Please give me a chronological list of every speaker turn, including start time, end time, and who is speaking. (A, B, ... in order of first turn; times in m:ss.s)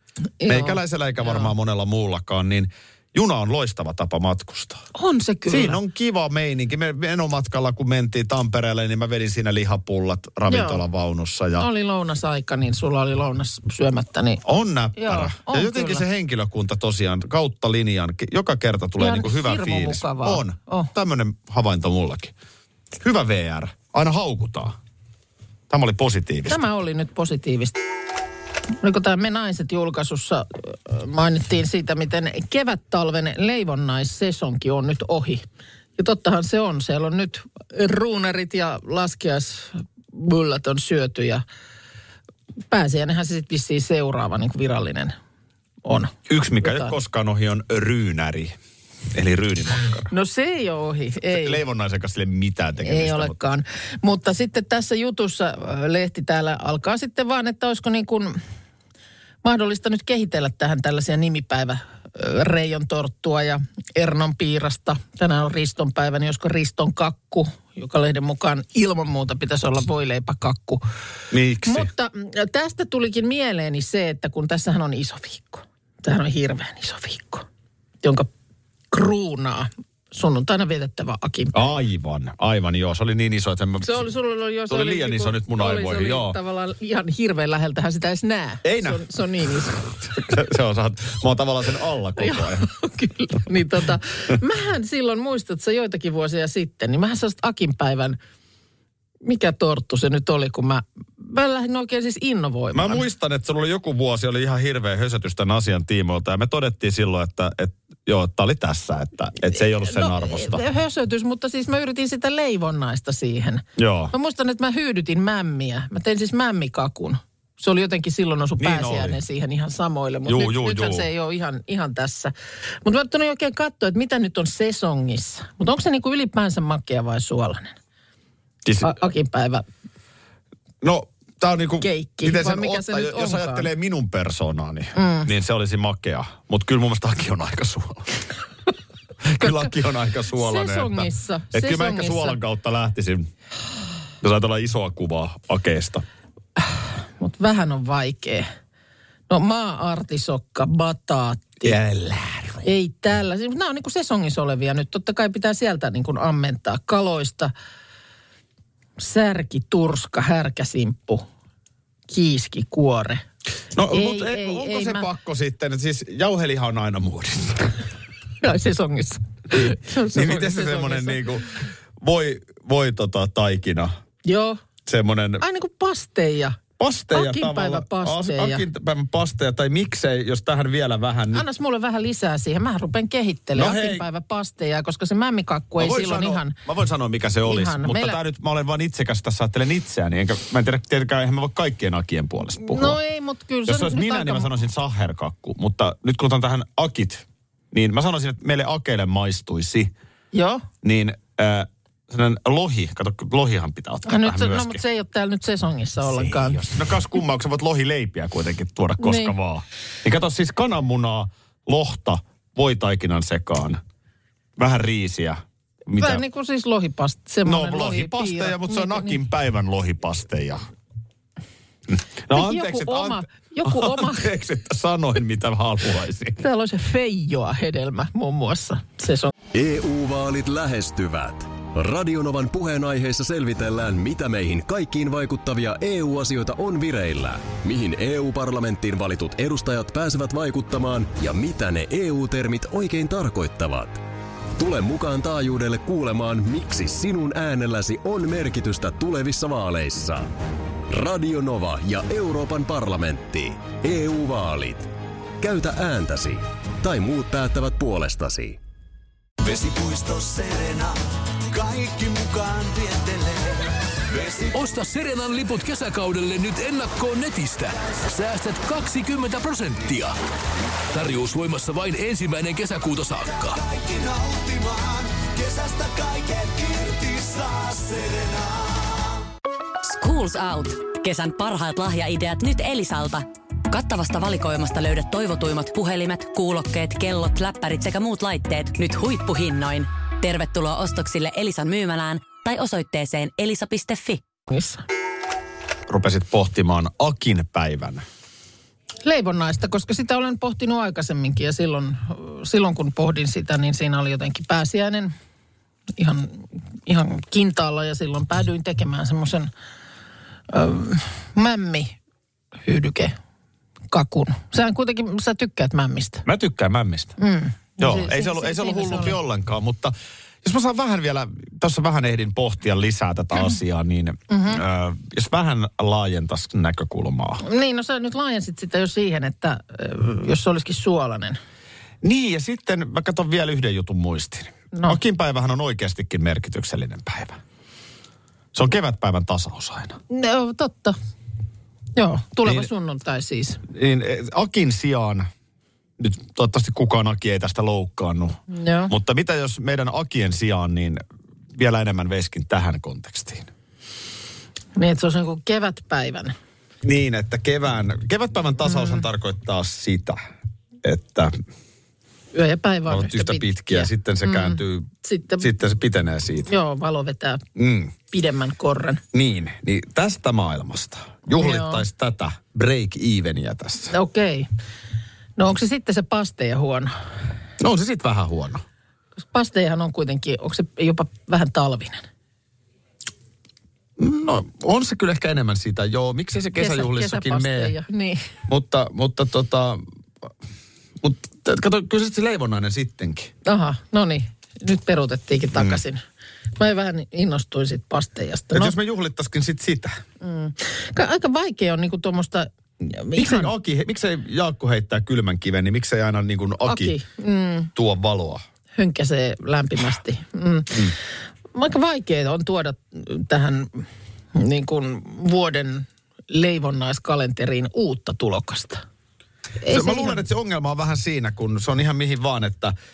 0:00.4-0:01.5 A
0:00.5-0:04.8 B
0:05.0-0:05.8 A
0:05.5-0:11.7 B
0:10.5-0:10.8 A
0:11.6-0:14.4 A
0:14.4-0:22.3 B
0:15.0-0:16.0 A
0:19.0-0:20.9 A
0:23.0-0:24.8 B
0:25.7-0:26.6 B
0:26.5-0:27.8 A
0:28.8-0:35.4 A
0:36.0-0:41.4 A
0:42.7-0:45.2 A
0:45.8-0:46.9 A
0:46.3-0:48.6 B
0:49.1-0:50.1 B
0:50.1-0:51.6 A
0:51.3-0:53.4 B
0:52.8-0:58.4 A
0:59.4-1:10.8 A
1:11.3-1:11.9 B
1:11.6-1:17.5 A
1:18.0-1:18.3 A
1:18.9-1:21.7 A
1:21.5-1:24.0 B
1:23.8-1:29.8 A
1:24.7-1:26.4 B
1:28.6-1:29.0 B
1:30.0-1:32.7 B
1:32.2-1:38.2 A
1:39.2-1:43.0 A
1:42.7-1:50.6 B
1:49.5-2:02.3 A
1:53.8-1:54.1 B
1:58.6-1:59.2 B
2:00.3-2:01.1 B
2:02.8-2:07.8 A
2:08.6-2:09.0 B
2:08.8-2:09.7 A
2:10.8-2:18.2 B
2:11.8-2:13.7 A
2:15.0-2:15.3 A
2:19.2-2:23.3 B
2:19.4-2:19.7 A
2:20.3-2:22.4 A
2:24.2-2:26.0 B
2:26.6-2:28.5 A
2:29.3-2:31.8 A
2:31.6-2:32.7 B
2:32.6-2:37.5 A
2:39.0-2:41.3 A
2:42.1-2:43.2 A
2:43.8-2:47.8 B
2:43.9-2:45.1 A
2:48.4-2:51.2 A
2:49.5-2:53.9 B
2:54.2-2:54.6 A
2:54.9-2:55.4 B
2:55.4-2:56.6 A
2:56.8-3:01.4 B
2:57.1-2:58.6 A
3:01.3-3:06.6 A
3:03.6-3:04.1 B
3:05.8-3:13.0 B
3:07.4-3:08.2 A
3:12.6-3:14.5 A
3:13.7-3:19.9 B
3:20.3-3:20.6 A
3:20.8-3:24.8 B
3:24.1-3:26.8 A
3:26.0-3:33.8 B
3:29.0-3:29.4 A
3:34.6-3:36.2 B
3:36.0-3:39.2 A
3:37.4-3:40.6 B
3:41.9-3:46.4 B
3:42.3-3:44.3 A
3:46.4-3:49.3 A
3:49.5-4:04.0 C
4:04.6-4:10.3 C
4:10.9-4:14.9 C
4:15.4-4:18.6 C
4:19.4-4:24.5 D
4:24.5-4:30.2 E
4:30.9-4:33.6 E
4:33.4-4:39.1 D
4:39.8-4:54.2 F
4:54.5-4:54.8 A
4:55.9-4:58.0 B
4:59.0-5:05.1 A
5:06.0-5:09.5 A
5:10.5-5:12.0 A
5:12.6-5:13.2 A
5:13.9-5:16.2 A
5:16.3-5:17.2 B
5:17.2-5:19.2 A
5:17.8-5:27.4 B
5:24.3-5:24.6 A
5:27.4-5:31.4 A
5:32.0-5:37.4 B
5:34.7-5:35.0 A
5:38.5-5:40.0 B
5:40.1-5:41.0 A
5:42.0-5:43.6 A
5:43.7-5:45.3 B
5:46.0-5:51.0 B
5:48.5-5:48.9 A
5:51.5-5:53.5 B
5:54.8-5:56.4 A
5:56.8-6:00.2 B
5:58.6-5:59.0 A
6:00.8-6:01.4 B
6:02.3-6:05.5 A
6:02.9-6:06.5 B
6:06.5-6:07.4 A
6:07.6-6:07.9 B
6:08.1-6:09.0 A
6:09.1-6:13.9 B
6:11.4-6:11.8 A
6:13.9-6:14.5 A
6:15.4-6:16.9 A
6:17.6-6:18.6 B
6:19.2-6:22.1 A
6:24.0-6:27.8 B
6:26.6-6:28.2 A
6:28.5-6:29.8 B
6:31.0-6:33.3 B
6:33.4-6:36.0 A
6:35.6-6:35.8 B
6:36.6-6:38.8 A
6:38.5-6:40.0 B
6:40.2-6:43.5 A
6:43.1-6:47.0 B
6:46.7-6:47.7 A
6:47.8-6:48.4 B
6:48.8-6:51.0 A
6:51.5-6:58.8 A
6:59.6-7:00.2 A
6:59.7-7:02.7 B